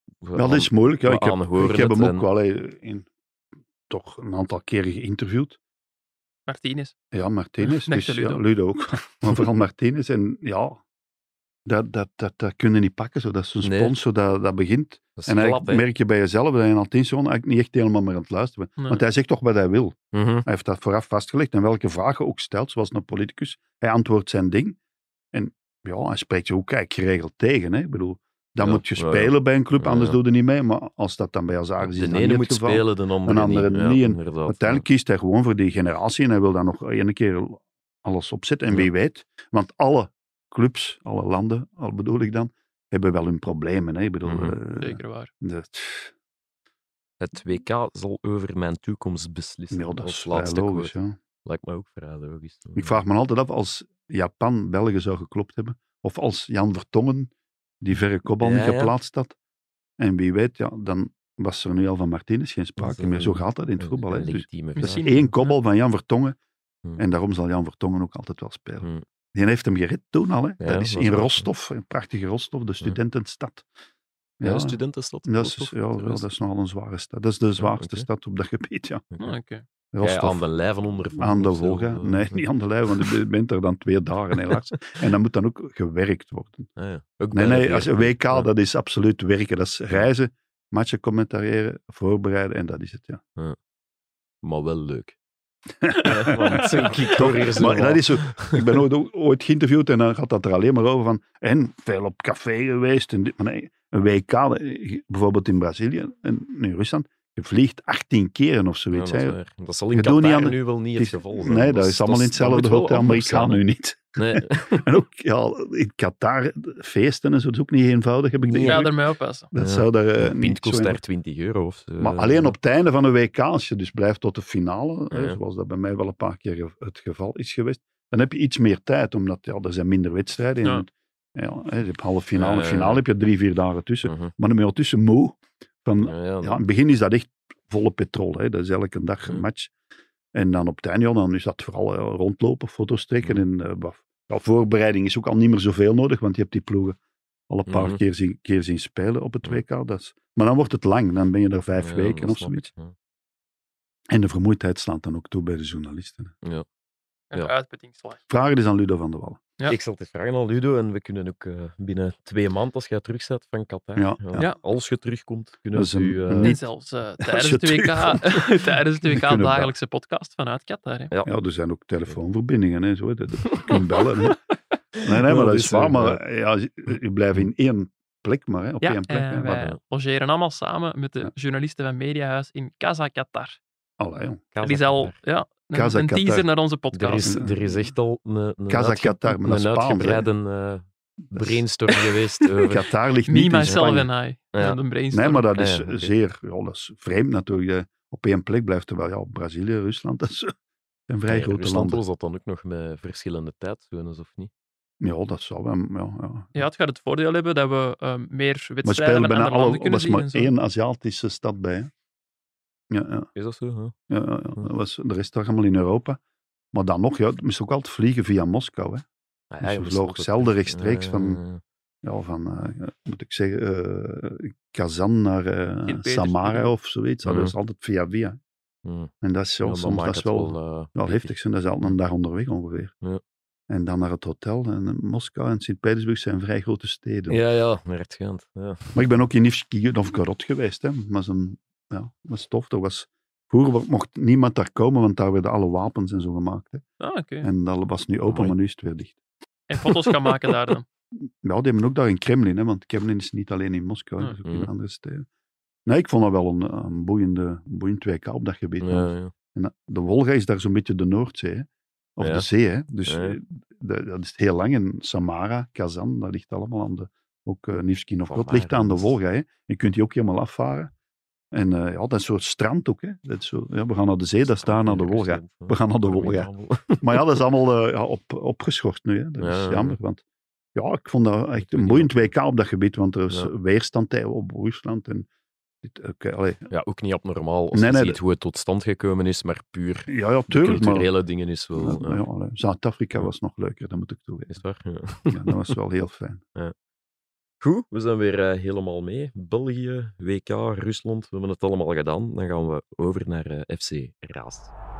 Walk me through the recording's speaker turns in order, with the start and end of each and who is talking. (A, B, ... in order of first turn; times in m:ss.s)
0:00.2-0:02.2 A
0:00.3-0:03.1 B
0:03.9-0:05.6 B
0:06.5-0:07.0 C
0:07.1-0:10.8 B
0:07.6-0:08.4 C
0:11.6-0:24.8 B
0:13.6-0:13.9 A
0:15.2-0:15.8 A
0:20.1-0:20.4 A
0:25.3-0:46.1 B
0:28.6-0:30.2 A
0:31.8-0:34.8 A
0:44.2-0:44.6 A
0:44.8-0:45.3 C
0:47.2-0:50.9 A
0:49.7-0:51.1 B
0:51.4-0:53.0 A
0:52.7-0:57.3 B
0:57.8-0:59.3 B
0:58.4-0:58.9 A
1:00.0-1:06.4 B
1:02.8-1:05.1 A
1:04.8-1:05.6 C
1:07.0-1:13.6 B
1:10.6-1:11.5 A
1:14.4-1:19.0 B
1:14.4-1:16.3 A
1:17.6-1:18.1 A
1:19.2-1:19.6 C
1:19.9-1:20.4 B
1:20.0-1:23.1 A
1:21.2-1:26.7 B
1:26.8-1:28.5 A
1:27.3-1:33.2 B
1:34.4-1:35.1 A
1:35.8-1:49.4 B
1:36.0-1:38.8 A
1:36.6-1:37.0 C
1:48.9-1:53.6 A
1:49.9-1:58.9 B
1:54.2-1:54.9 A
1:58.4-1:58.9 A
1:58.6-1:59.5 C
1:59.5-2:01.0 B
1:59.6-2:02.6 A
2:02.0-2:19.7 B
2:05.1-2:05.4 A
2:12.4-2:13.0 A
2:14.0-2:14.3 A
2:16.0-2:16.6 A
2:20.3-2:27.0 B
2:27.5-2:32.7 B
2:27.7-2:28.0 A
2:31.8-2:32.9 A
2:34.1-2:36.3 B
2:37.3-2:38.2 C
2:38.3-2:39.4 B
2:39.7-2:46.6 A
2:44.0-2:44.5 B
2:45.7-2:46.6 B
2:46.4-2:51.1 C
2:47.2-2:49.7 B
2:51.2-2:54.4 B
2:53.5-2:53.8 A
2:55.0-2:56.2 A
2:55.0-2:59.7 B
2:58.8-3:03.6 C
3:04.0-3:04.4 B
3:04.5-3:05.2 A
3:04.6-3:07.4 C
3:05.7-3:06.5 B
3:06.9-3:12.8 A
3:07.2-3:07.5 B
3:08.7-3:10.2 B
3:11.3-3:11.6 B
3:12.6-3:14.1 B
3:13.2-3:15.4 C
3:15.1-3:20.5 B
3:15.6-3:16.1 A
3:21.1-3:22.0 B
3:21.3-3:24.5 A
3:25.0-3:26.5 B
3:26.5-3:30.5 C
3:28.8-3:31.9 B
3:32.9-3:33.3 B
3:33.4-3:33.9 A
3:34.1-3:36.2 B
3:36.7-3:39.0 B
3:39.5-3:41.6 A
3:39.6-3:41.4 B
3:42.0-3:48.4 B
3:45.9-3:46.7 C
3:47.2-3:47.5 A
3:48.8-3:49.1 A
3:49.2-3:52.9 B
3:49.6-3:51.9 A
3:53.7-3:57.4 B
3:57.3-3:59.0 A
3:58.9-4:06.8 B
4:07.0-4:07.5 C
4:07.4-4:09.2 B
4:08.3-4:08.5 A
4:09.7-4:10.8 C
4:11.4-4:15.3 B
4:14.4-4:14.7 A
4:15.8-4:30.9 B
4:18.8-4:19.3 A
4:22.2-4:22.5 A
4:23.0-4:23.4 A
4:28.3-4:29.2 A
4:31.5-4:40.2 B
4:34.4-4:37.4 A
4:39.4-4:40.0 A
4:40.7-4:45.3 B
4:41.6-4:42.3 A
4:45.8-4:46.7 B
4:46.7-4:52.2 A
4:47.7-4:48.2 B
4:50.1-4:51.1 B
4:51.8-4:54.6 B
4:54.5-4:55.7 A
4:55.3-4:56.4 B
4:57.6-5:04.7 A